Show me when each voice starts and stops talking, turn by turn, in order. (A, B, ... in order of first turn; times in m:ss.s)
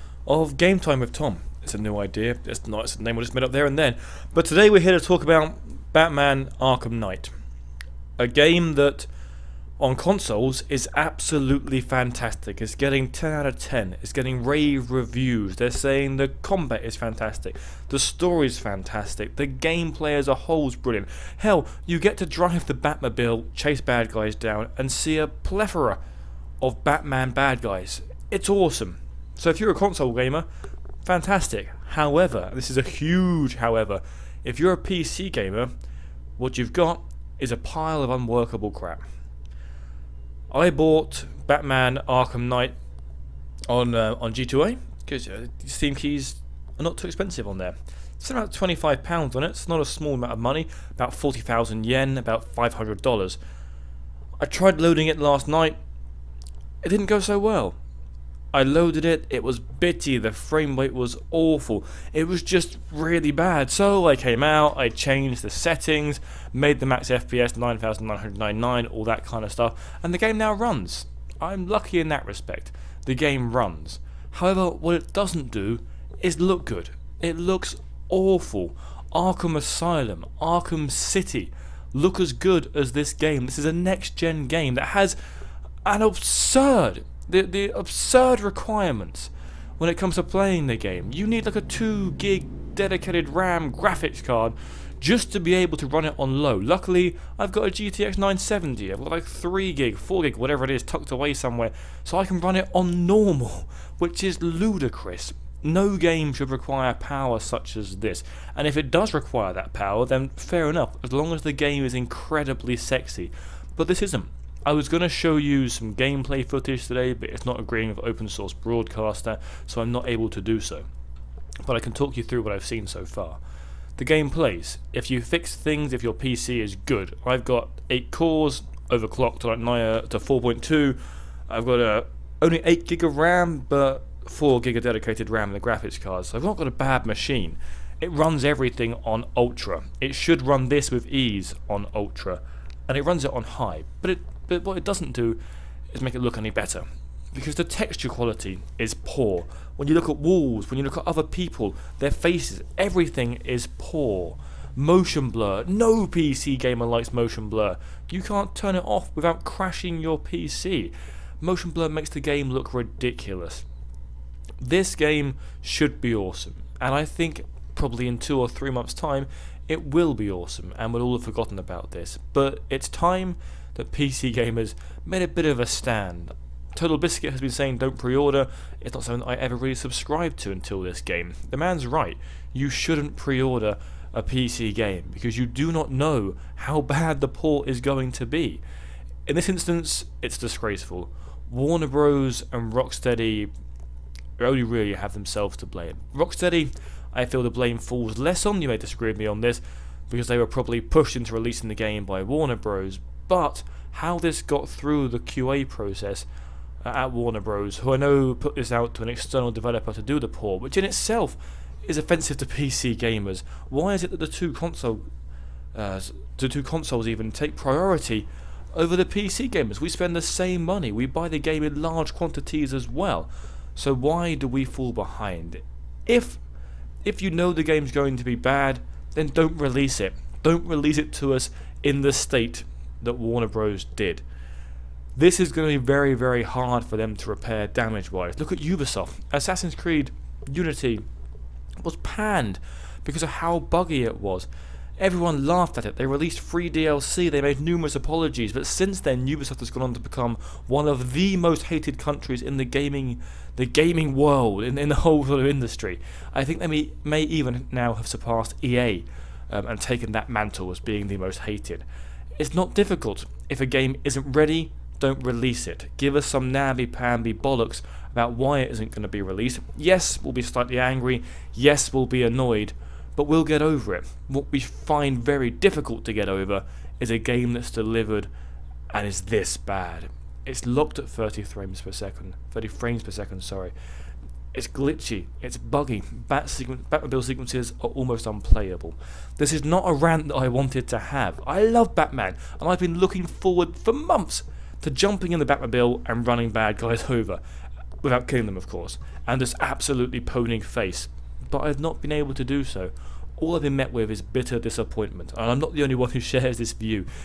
0:00.3-0:07.3 A
0:08.2-0:09.1 A
0:09.8-0:26.0 A
0:26.6-0:30.5 A
0:31.0-0:35.7 A
0:36.4-0:39.0 A
0:40.5-0:42.8 A
0:43.7-0:53.4 A
0:54.4-0:55.8 A
0:56.8-0:57.8 A
0:58.5-1:25.2 A
1:25.8-2:00.9 A
2:01.6-2:03.4 A
2:04.0-2:25.4 A
2:25.9-2:43.6 A
2:44.6-3:08.6 A
3:09.3-3:13.5 A
3:14.4-3:26.3 A
3:26.8-3:35.1 A
3:35.7-3:46.4 A
3:47.0-3:54.2 A
3:55.2-4:01.1 A
4:01.8-4:04.5 A
4:05.0-4:21.8 A
4:22.4-4:38.3 A
4:38.9-4:43.7 A
4:44.5-4:57.4 A
4:58.0-5:07.1 A